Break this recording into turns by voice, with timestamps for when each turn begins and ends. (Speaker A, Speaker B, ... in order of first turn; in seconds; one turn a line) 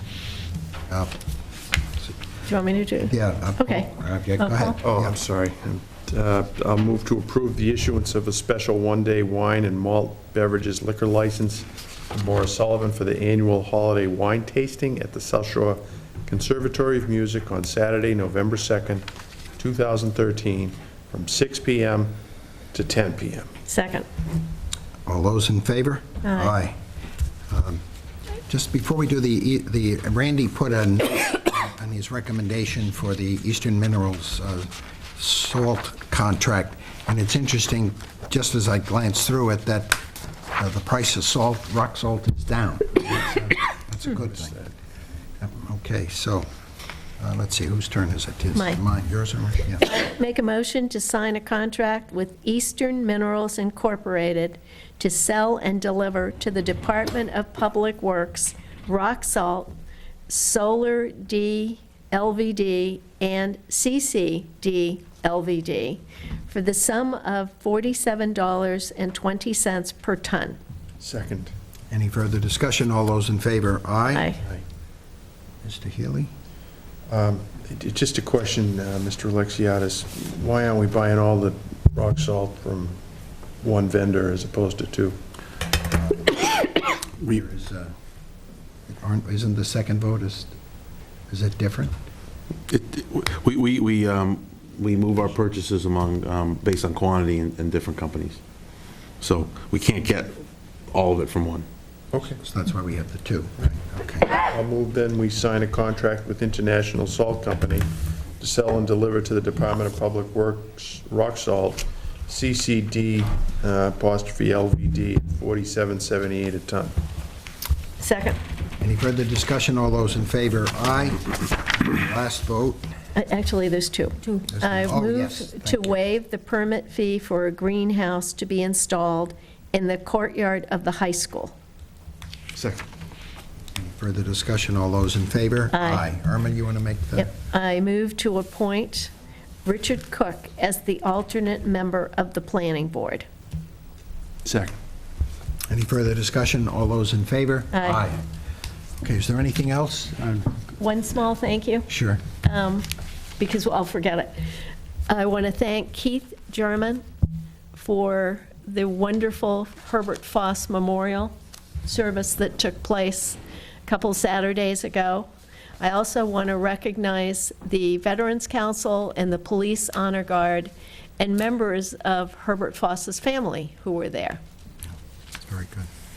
Speaker A: 0.9-1.2
Speaker B: 2.5-4.8
Speaker A: 3.0-5.2
Speaker C: 4.8-19.1
Speaker C: 19.6-22.1
Speaker C: 22.7-23.5
Speaker B: 23.7-24.1
Speaker A: 25.1-26.8
Speaker B: 26.2-26.6
Speaker A: 27.5-27.8
Speaker A: 28.5-40.0
Speaker A: 40.5-44.6
Speaker A: 45.4-46.5
Speaker A: 47.2-49.9
Speaker B: 49.8-59.8
Speaker B: 60.3-70.6
Speaker C: 71.0-71.5
Speaker A: 71.9-74.3
Speaker B: 74.1-74.4
Speaker A: 75.6-76.3
Speaker C: 77.1-83.0
Speaker C: 83.6-85.2
Speaker A: 87.2-87.9
Speaker A: 88.9-90.6
Speaker A: 91.3-91.9
Speaker D: 92.7-98.4
Speaker D: 99.2-101.7
Speaker C: 102.1-102.4
Speaker A: 102.3-104.4
Speaker C: 104.4-107.9
Speaker C: 108.4-117.0
Speaker B: 118.0-118.4
Speaker A: 118.8-122.8
Speaker B: 123.1-131.6
Speaker A: 124.5-126.0
Speaker C: 132.6-132.8
Speaker A: 133.8-137.3
Speaker B: 135.7-136.0
Speaker B: 137.2-139.1
Speaker B: 139.7-143.3
Speaker C: 144.4-144.7
Speaker A: 145.7-148.2
Speaker B: 147.7-148.0
Speaker A: 149.0-150.5
Speaker B: 150.8-151.9
Speaker A: 151.9-152.2
Speaker B: 152.4-154.4
Speaker B: 155.1-157.0
Speaker B: 157.7-174.4
Speaker A: 175.5-175.9